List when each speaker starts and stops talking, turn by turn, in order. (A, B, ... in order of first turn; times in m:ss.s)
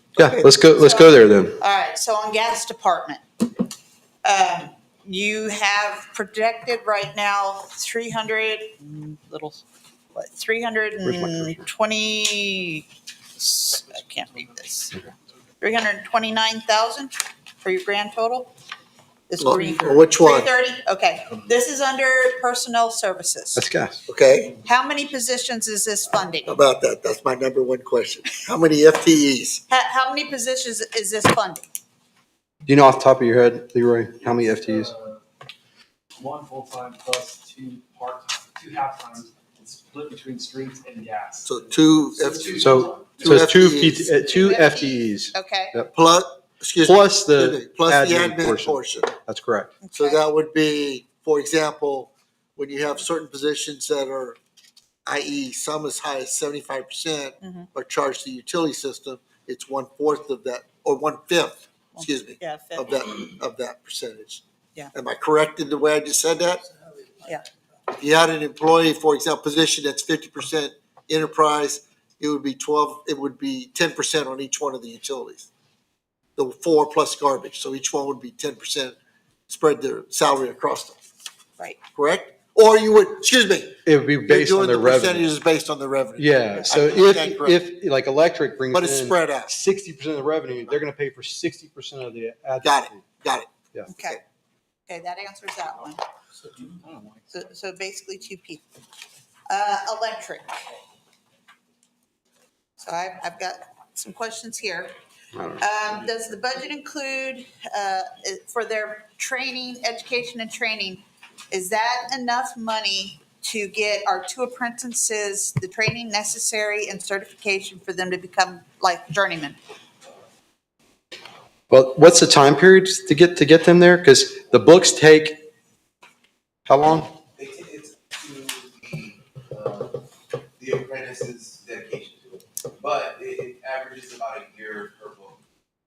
0:00.2-0:01.5 A
0:00.2-0:00.5 B
0:00.6-0:03.2 C
0:04.2-0:09.6 C
0:10.1-0:15.0 C
0:11.0-0:11.6 A
0:15.6-0:18.5 C
0:19.3-0:23.6 C
0:19.4-0:20.5 B
0:23.6-0:24.0 A
0:24.1-0:24.5 B
0:24.6-0:26.6 C
0:26.5-0:29.6 B
0:29.7-0:31.6 C
0:32.7-0:34.9 A
0:34.5-0:35.2 D
0:36.2-0:43.4 D
0:41.4-0:42.6 B
0:42.6-0:45.9 A
0:43.2-0:44.0 B
0:44.1-0:45.8 C
0:45.9-0:49.1 B
0:46.8-0:49.7 A
0:49.8-0:50.2 C
0:49.9-0:54.4 B
0:55.0-1:04.4 B
0:57.4-0:57.7 C
1:01.9-1:03.0 C
1:04.9-1:06.6 B
1:07.9-1:15.5 B
1:16.4-1:18.9 B
1:19.5-1:21.0 B
1:22.0-1:27.6 B
1:23.8-1:25.2 A
1:26.2-1:33.0 A
1:28.7-1:29.5 B
1:32.6-1:34.2 B
1:33.9-1:34.2 C
1:34.9-1:36.0 C
1:36.6-1:37.2 D
1:37.3-1:38.7 C
1:39.5-1:40.5 C
1:42.8-1:44.9 C
1:45.3-1:45.6 A
1:45.6-1:59.6 C
2:01.7-2:05.4 A
2:06.7-2:07.2 A
2:07.3-2:10.0 E
2:10.6-2:15.4 E